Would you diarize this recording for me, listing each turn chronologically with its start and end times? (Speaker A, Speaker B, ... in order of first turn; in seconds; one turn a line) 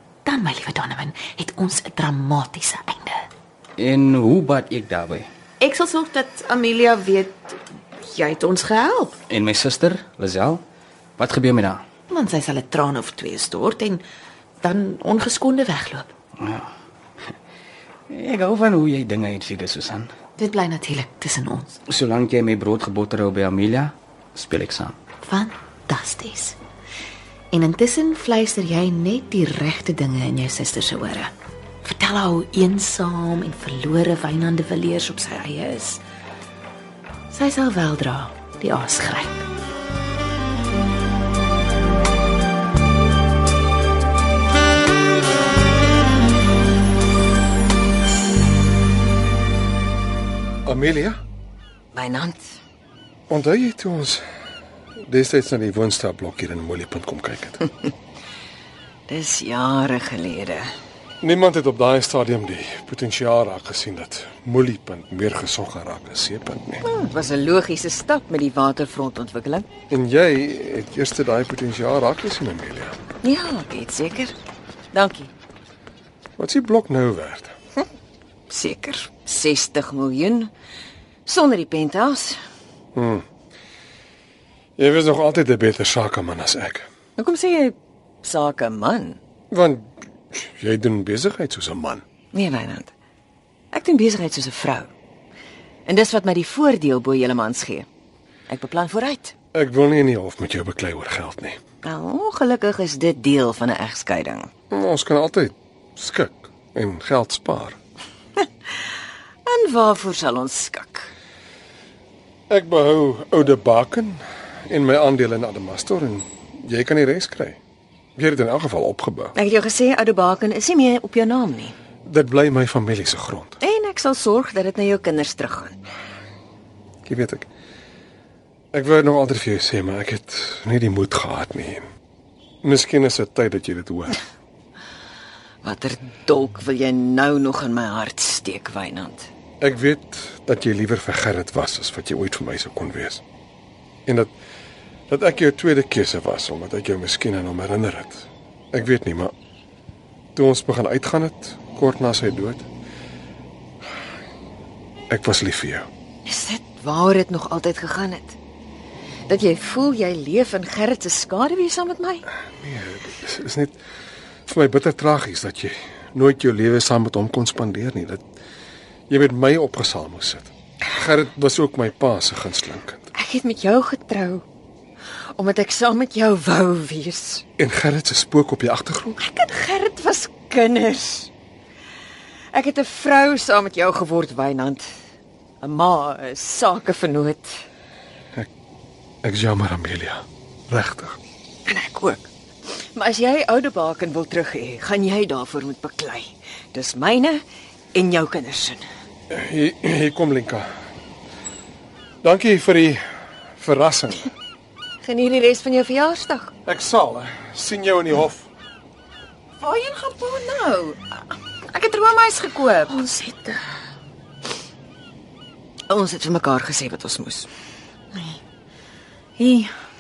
Speaker A: 0.2-3.3
Speaker B: 3.8-5.3
Speaker A: 5.6-9.2
Speaker B: 9.3-10.6
Speaker B: 11.2-11.8
Speaker A: 12.1-14.0
Speaker A: 14.6-16.1
Speaker B: 16.4-16.7
Speaker B: 18.1-20.1
Speaker A: 20.4-21.8
Speaker B: 21.9-25.0
Speaker A: 25.2-26.6
Speaker A: 27.5-36.0
Speaker A: 37.3-39.5
Speaker C: 50.6-51.2
Speaker D: 51.9-52.5
Speaker C: 53.3-54.2
Speaker C: 55.0-57.7
Speaker D: 59.1-60.7
Speaker C: 61.2-66.8
Speaker D: 66.8-69.7
Speaker C: 69.9-73.0
Speaker D: 73.2-74.3
Speaker D: 74.9-75.3
Speaker C: 76.4-77.5
Speaker D: 78.5-80.5
Speaker D: 81.3-82.4
Speaker C: 83.0-83.3
Speaker C: 84.8-86.9
Speaker D: 87.2-89.2
Speaker C: 89.5-92.0
Speaker D: 92.3-92.9
Speaker D: 93.7-94.9
Speaker D: 95.9-97.9
Speaker D: 98.5-99.3
Speaker C: 99.5-101.6
Speaker D: 101.8-104.5
Speaker C: 104.7-107.8
Speaker D: 109.5-111.1
Speaker C: 112.5-117.6
Speaker C: 118.2-119.3
Speaker D: 119.4-121.8
Speaker C: 122.1-123.6
Speaker D: 123.6-125.8
Speaker C: 127.1-127.5
Speaker C: 128.7-131.9
Speaker C: 132.6-134.2
Speaker D: 135.6-139.3
Speaker C: 139.6-143.2
Speaker C: 144.1-144.3
Speaker C: 145.1-149.3
Speaker C: 150.3-152.7
Speaker C: 155.1-155.9
Speaker D: 156.3-158.4
Speaker D: 159.3-162.2
Speaker C: 162.6-163.8
Speaker C: 164.5-168.2
Speaker C: 169.1-173.0
Speaker D: 173.2-174.4
Speaker D: 175.4-177.4
Speaker C: 177.6-179.2
Speaker D: 179.2-181.3
Speaker D: 182.5-184.9
Speaker D: 185.6-187.6
Speaker C: 189.2-191.2
Speaker D: 191.7-192.3
Speaker D: 192.9-197.4
Speaker D: 197.9-198.8
Speaker C: 199.3-200.7
Speaker C: 202.2-203.0
Speaker C: 203.6-204.3
Speaker D: 205.0-206.5
Speaker C: 206.7-208.5
Speaker E: 209.6-211.0
Speaker E: 211.7-213.0
Speaker D: 212.9-213.6
Speaker D: 215.9-217.5
Speaker E: 219.4-219.7